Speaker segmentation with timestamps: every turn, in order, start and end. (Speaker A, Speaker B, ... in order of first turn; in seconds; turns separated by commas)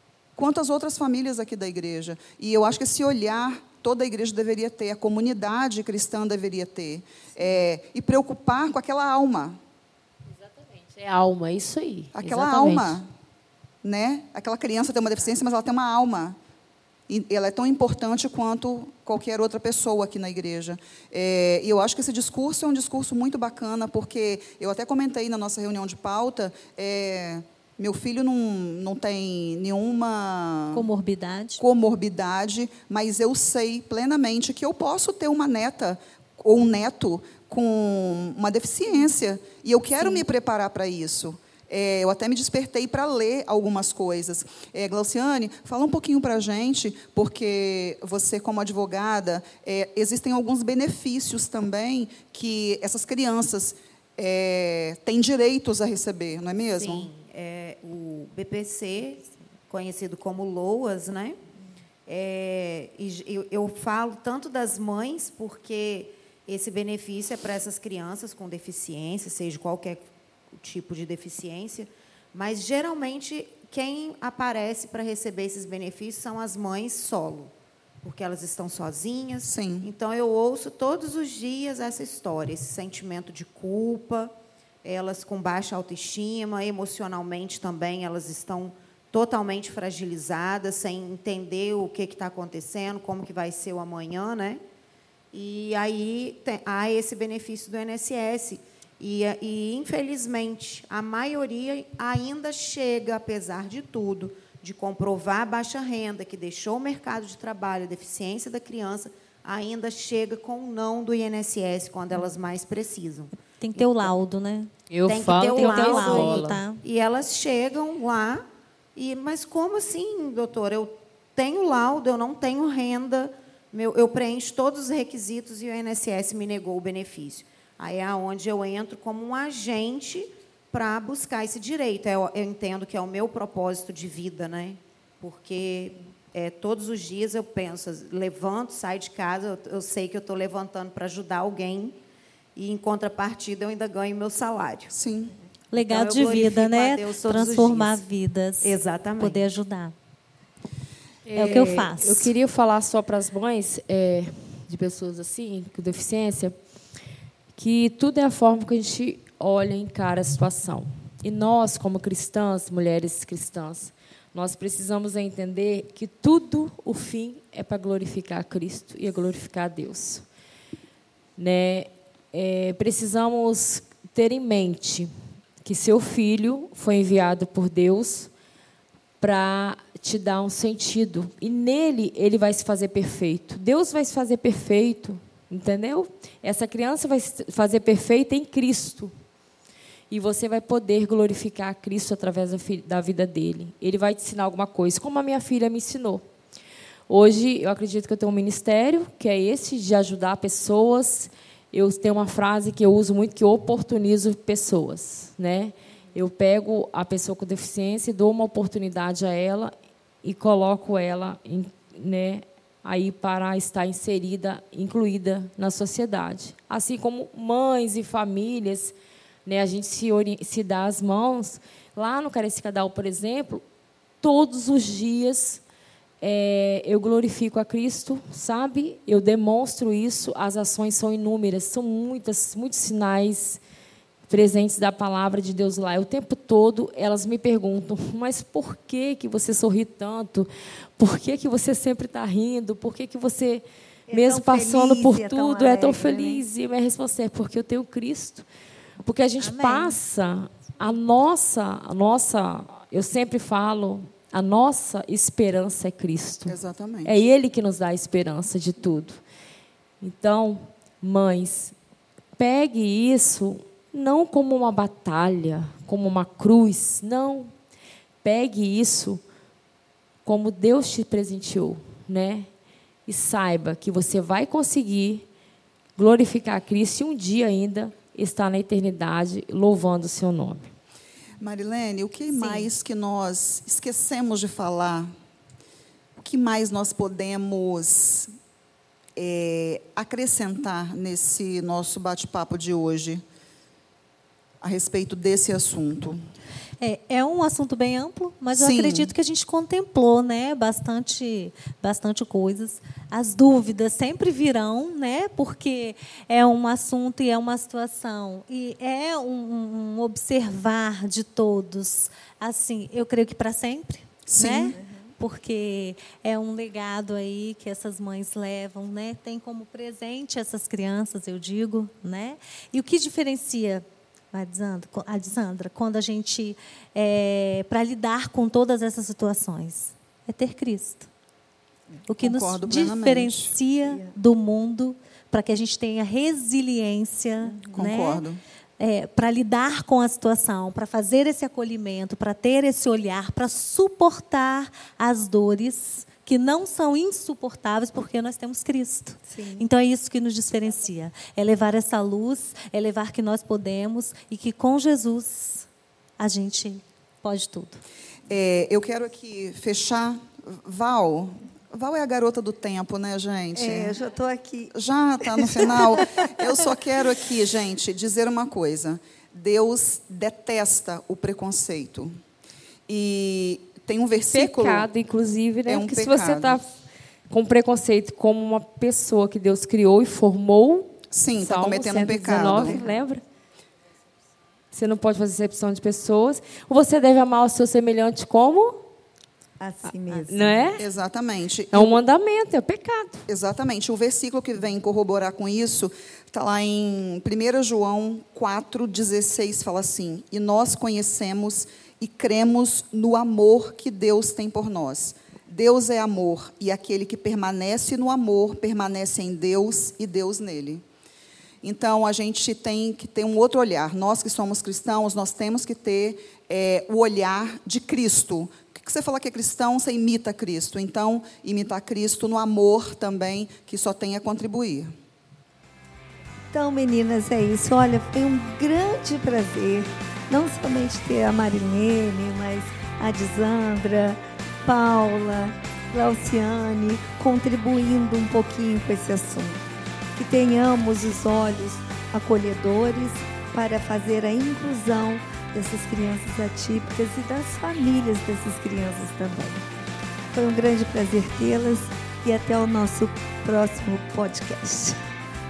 Speaker A: 0.3-9.6, Speaker B: 10.7-13.0, Speaker A: 12.1-13.1, Speaker A: 13.8-16.4, Speaker A: 17.1-30.9, Speaker C: 30.7-31.6, Speaker A: 31.6-57.1, Speaker D: 56.7-61.4, Speaker D: 62.0-94.6, Speaker A: 79.4-79.9, Speaker D: 95.3-114.1, Speaker C: 113.6-114.7, Speaker B: 114.9-116.6, Speaker D: 115.0-141.9, Speaker C: 115.3-116.8, Speaker D: 142.5-144.9, Speaker A: 144.9-145.3, Speaker C: 145.7-149.9, Speaker D: 145.7-148.0, Speaker D: 148.6-149.4, Speaker B: 151.2-156.5, Speaker C: 151.3-152.3, Speaker B: 157.6-170.2, Speaker B: 171.4-175.1, Speaker B: 175.6-178.3, Speaker B: 179.2-189.1, Speaker B: 190.1-196.2, Speaker B: 197.1-223.6, Speaker B: 224.2-225.6, Speaker B: 226.2-233.6, Speaker B: 234.3-248.4, Speaker E: 244.1-246.4, Speaker B: 249.0-259.2, Speaker C: 249.4-250.0, Speaker A: 256.5-257.2, Speaker B: 260.0-261.7, Speaker B: 262.4-267.5, Speaker B: 268.2-269.2, Speaker B: 270.2-272.5, Speaker B: 273.1-275.2, Speaker B: 276.0-280.7, Speaker A: 281.4-285.1, Speaker C: 282.3-282.6, Speaker A: 286.2-288.3, Speaker A: 289.1-293.2, Speaker A: 294.6-296.2, Speaker C: 296.8-331.1, Speaker A: 298.5-299.1, Speaker A: 314.2-314.8, Speaker E: 314.8-315.1, Speaker C: 332.1-338.2, Speaker A: 332.2-333.5, Speaker E: 333.9-334.1, Speaker E: 337.4-337.8, Speaker A: 337.7-338.4, Speaker C: 338.8-355.7, Speaker E: 349.2-349.6, Speaker C: 356.2-357.8, Speaker A: 358.3-363.9, Speaker E: 363.5-364.7, Speaker A: 364.7-372.1, Speaker E: 365.2-366.6, Speaker A: 372.9-374.9, Speaker B: 374.3-376.6, Speaker A: 375.7-376.6, Speaker B: 377.3-383.2, Speaker A: 381.1-382.8, Speaker E: 382.5-383.0, Speaker B: 384.7-388.8, Speaker E: 389.6-390.7, Speaker B: 389.9-390.8, Speaker A: 390.8-392.0, Speaker B: 391.7-393.2, Speaker A: 393.3-410.8, Speaker A: 411.6-424.9, Speaker E: 426.5-449.7, Speaker E: 450.3-455.0